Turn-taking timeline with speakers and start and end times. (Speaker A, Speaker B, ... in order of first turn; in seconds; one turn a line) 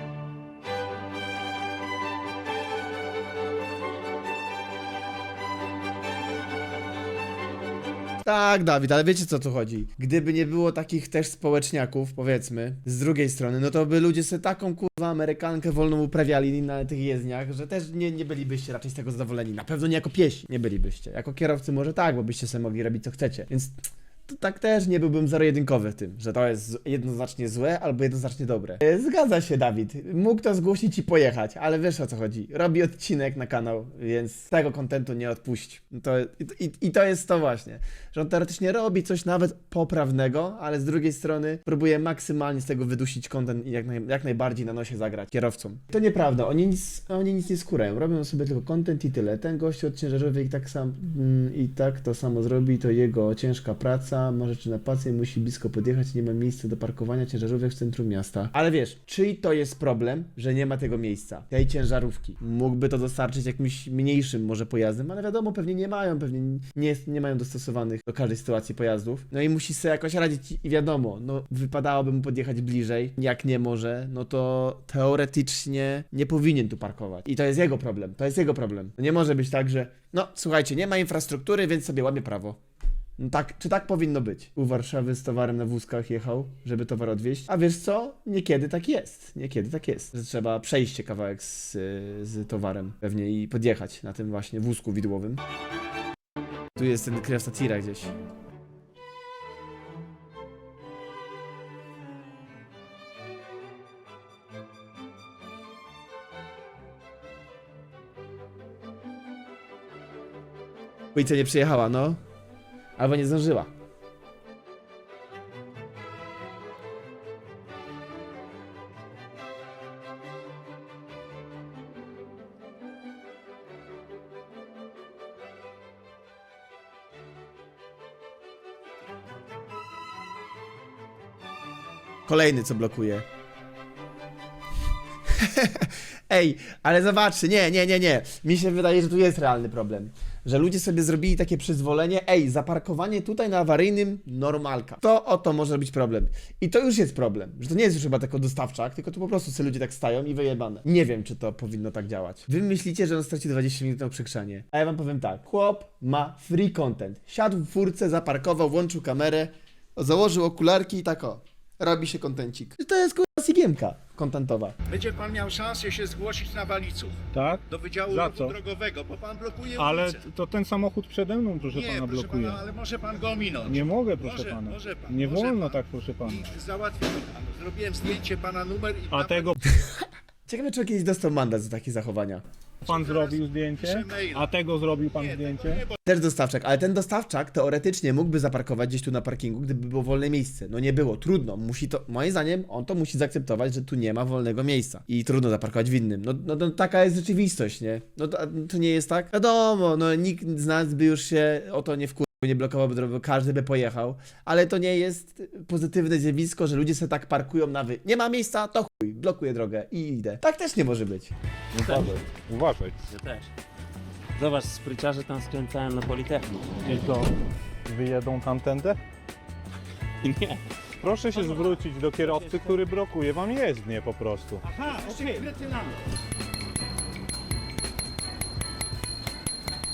Speaker A: 8.2-82.6
Speaker A: 83.2-95.4
Speaker A: 96.8-98.1
Speaker A: 111.1-112.2
Speaker A: 113.0-113.7
Speaker A: 132.3-133.2
Speaker A: 135.4-164.8
Speaker B: 164.9-170.2
Speaker C: 167.3-168.6
Speaker C: 169.8-172.6
Speaker B: 171.7-179.5
Speaker C: 173.7-176.5
Speaker C: 179.1-179.5
Speaker A: 180.5-182.4
Speaker B: 182.8-185.9
Speaker C: 182.8-185.8
Speaker A: 186.1-211.3
Speaker D: 211.8-212.2
Speaker C: 211.8-213.0
Speaker D: 213.1-213.5
Speaker D: 214.4-216.8
Speaker C: 216.8-217.3
Speaker C: 217.9-219.0
Speaker D: 220.2-220.6
Speaker C: 221.0-224.6
Speaker D: 221.3-222.8
Speaker B: 224.7-226.0